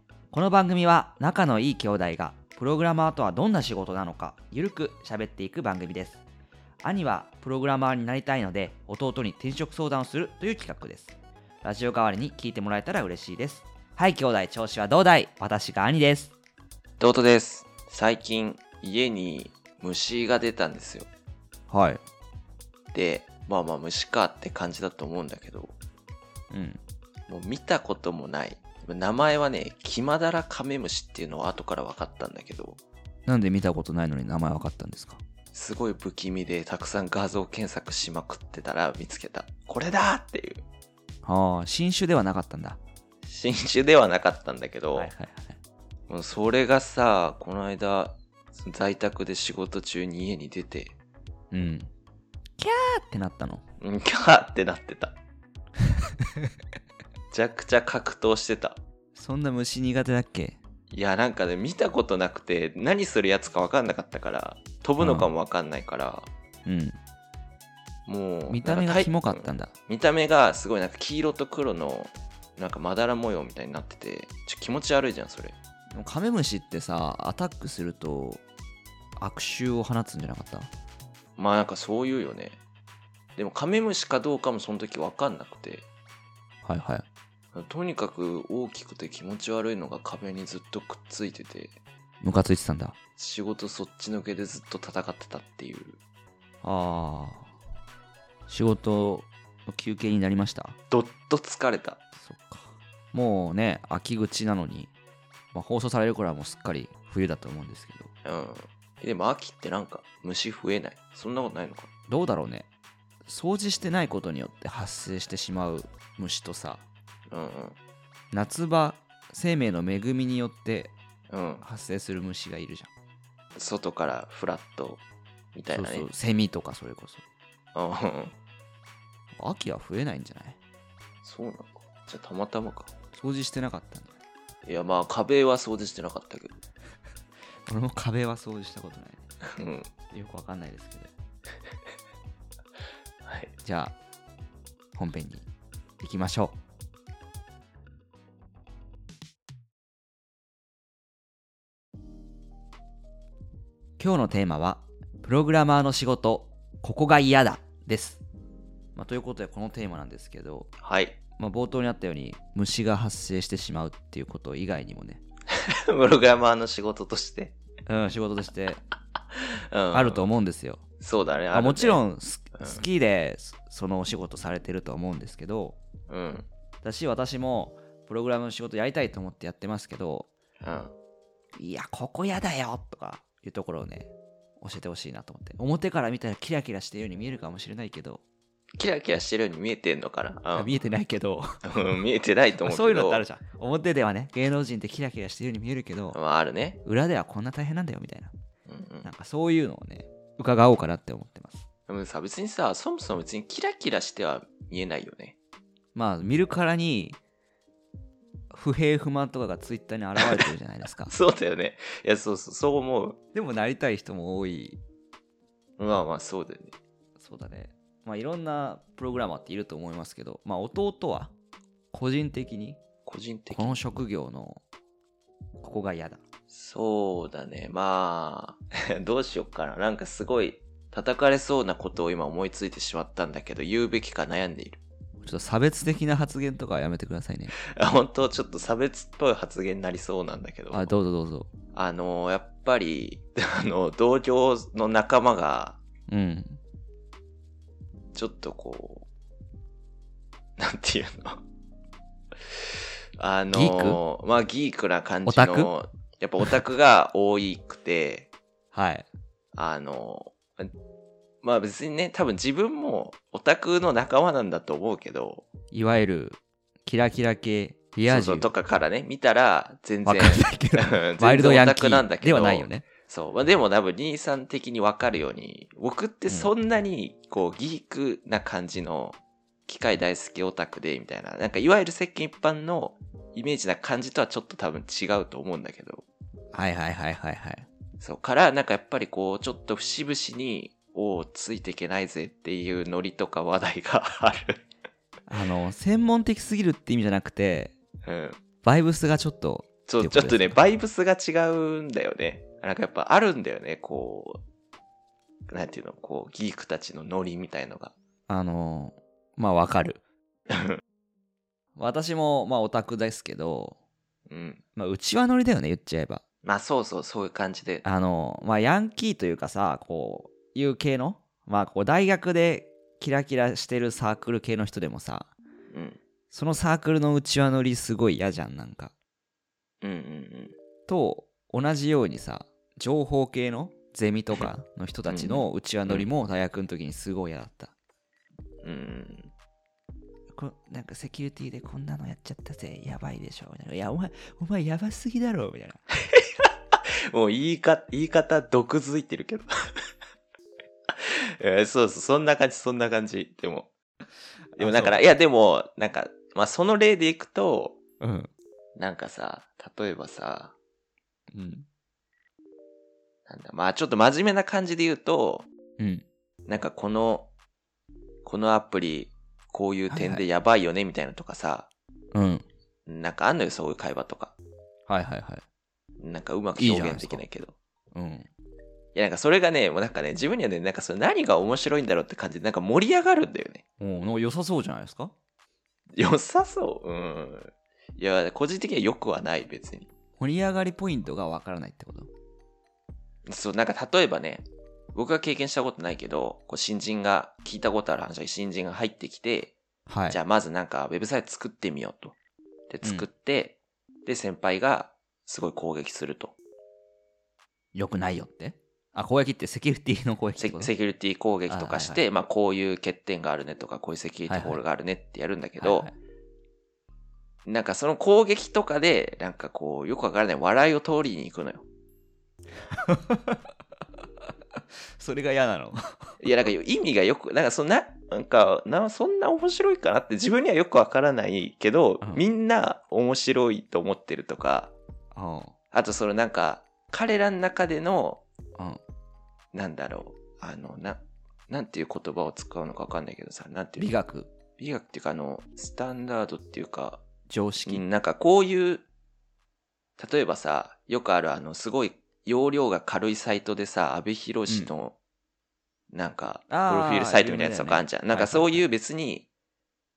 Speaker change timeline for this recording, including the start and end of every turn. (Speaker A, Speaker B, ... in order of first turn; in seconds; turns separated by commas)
Speaker A: 0.3-6.2, Speaker A: 6.8-16.3, Speaker B: 17.0-21.1, Speaker A: 21.7-22.0, Speaker B: 22.9-25.7, Speaker A: 26.5-26.8, Speaker B: 27.3-32.8, Speaker A: 33.2-35.2, Speaker B: 35.5-40.6, Speaker A: 41.2-42.8, Speaker B: 43.2-45.1, Speaker A: 44.9-45.6, Speaker B: 46.1-50.9, Speaker A: 51.5-51.9, Speaker A: 52.6-53.6, Speaker B: 53.8-55.1, Speaker A: 56.0-56.5, Speaker B: 57.3-58.8, Speaker A: 59.1-60.6, Speaker B: 60.9-66.3, Speaker A: 65.0-65.3, Speaker A: 66.6-67.0, Speaker B: 68.0-75.5, Speaker A: 68.5-69.7, Speaker A: 75.9-78.4, Speaker A: 79.2-80.7, Speaker B: 81.4-82.6, Speaker B: 83.3-85.8, Speaker A: 86.6-87.0, Speaker B: 87.5-91.7, Speaker A: 92.2-93.0, Speaker B: 93.2-96.0, Speaker A: 96.6-97.5, Speaker A: 98.5-100.8, Speaker B: 100.9-102.0, Speaker A: 102.2-104.9, Speaker A: 105.5-108.1, Speaker B: 108.2-111.9, Speaker A: 112.1-112.7, Speaker A: 113.2-116.8, Speaker B: 117.3-117.8, Speaker A: 118.3-120.9, Speaker B: 121.3-121.6, Speaker A: 121.6-122.9, Speaker B: 123.5-125.0, Speaker B: 125.5-126.1, Speaker A: 125.7-127.2, Speaker B: 127.7-128.3, Speaker A: 129.3-130.6, Speaker B: 131.2-132.9, Speaker A: 133.1-134.2, Speaker B: 134.6-136.6, Speaker A: 137.7-139.2, Speaker B: 139.4-139.9, Speaker A: 140.1-141.1, Speaker B: 143.2-143.5, Speaker A: 143.6-143.9, Speaker A: 144.9-145.5, Speaker A: 146.0-146.6, Speaker A: 154.0-158.2, Speaker A: 158.9-160.7, Speaker B: 160.8-161.2, Speaker A: 161.4-165.2, Speaker B: 165.5-167.5, Speaker A: 167.8-168.8, Speaker B: 169.3-170.3, Speaker A: 169.9-170.8, Speaker B: 171.0-172.0, Speaker A: 171.5-175.8, Speaker B: 172.6-172.8, Speaker B: 176.1-176.5, Speaker A: 176.8-180.3, Speaker B: 180.6-180.9, Speaker A: 181.6-188.2, Speaker B: 188.8-190.7, Speaker A: 190.5-191.9, Speaker B: 191.6-193.2, Speaker A: 192.6-196.2, Speaker B: 196.1-196.8, Speaker A: 196.8-198.3, Speaker B: 198.7-199.1, Speaker A: 199.0-201.7, Speaker B: 201.9-205.3, Speaker A: 205.9-207.2, Speaker A: 208.5-211.1, Speaker B: 211.1-213.2, Speaker A: 213.3-214.8, Speaker B: 215.8-216.8, Speaker A: 217.2-221.3, Speaker A: 221.9-222.8, Speaker B: 223.1-223.8, Speaker A: 223.5-224.6, Speaker A: 225.6-226.2, Speaker B: 226.5-234.8, Speaker A: 235.2-237.5, Speaker B: 237.6-240.9, Speaker A: 240.7-241.5, Speaker B: 241.7-245.8, Speaker A: 246.1-246.6, Speaker B: 248.1-249.1, Speaker B: 250.6-251.4, Speaker B: 253.2-258.3, Speaker A: 253.5-254.0, Speaker A: 255.2-255.7, Speaker A: 258.7-259.1, Speaker B: 259.5-260.7, Speaker B: 261.4-265.4, Speaker A: 265.7-268.5, Speaker B: 268.1-286.0, Speaker A: 270.1-272.9, Speaker A: 286.5-287.7, Speaker B: 288.0-294.6, Speaker A: 295.3-297.8, Speaker B: 298.0-298.4, Speaker A: 298.6-300.6, Speaker B: 299.9-304.4, Speaker B: 305.5-307.9, Speaker A: 308.3-310.0, Speaker B: 310.5-310.8, Speaker A: 311.8-313.8, Speaker B: 314.3-314.6, Speaker A: 314.8-316.2, Speaker B: 316.4-317.8, Speaker A: 317.8-325.3, Speaker B: 325.7-326.0, Speaker A: 326.3-328.9, Speaker B: 329.8-330.5, Speaker A: 330.9-337.7, Speaker B: 335.1-336.1, Speaker B: 338.6-339.3, Speaker A: 340.3-345.8, Speaker B: 346.1-349.5, Speaker B: 350.9-353.7, Speaker A: 354.6-355.0, Speaker B: 354.6-357.8, Speaker A: 358.0-358.3, Speaker B: 358.8-360.5, Speaker A: 361.3-361.6, Speaker B: 363.3-365.4, Speaker A: 365.8-366.0, Speaker B: 366.5-367.3, Speaker B: 368.2-371.7, Speaker A: 369.9-370.2, Speaker A: 372.1-372.4, Speaker B: 372.9-374.3, Speaker A: 374.9-375.4, Speaker B: 376.0-377.5, Speaker A: 376.6-377.2, Speaker A: 377.9-378.3, Speaker B: 378.9-383.6, Speaker A: 383.8-385.1, Speaker B: 385.9-389.9, Speaker A: 390.2-392.1, Speaker B: 393.2-399.6, Speaker A: 399.9-400.2, Speaker B: 400.1-402.1, Speaker B: 402.7-406.3, Speaker A: 402.8-403.1, Speaker A: 407.7-410.7, Speaker B: 410.4-415.9, Speaker A: 411.5-412.0, Speaker A: 414.3-414.6, Speaker A: 415.6-415.9, Speaker B: 417.4-421.6, Speaker A: 422.7-423.5, Speaker A: 424.2-426.1, Speaker B: 426.2-434.7, Speaker A: 435.1-435.5, Speaker B: 435.7-438.2, Speaker B: 439.5-443.9, Speaker A: 443.8-444.3, Speaker B: 444.6-447.0, Speaker A: 447.3-447.8, Speaker B: 447.6-448.8, Speaker B: 450.0-454.9, Speaker B: 455.9-459.3, Speaker A: 456.5-458.6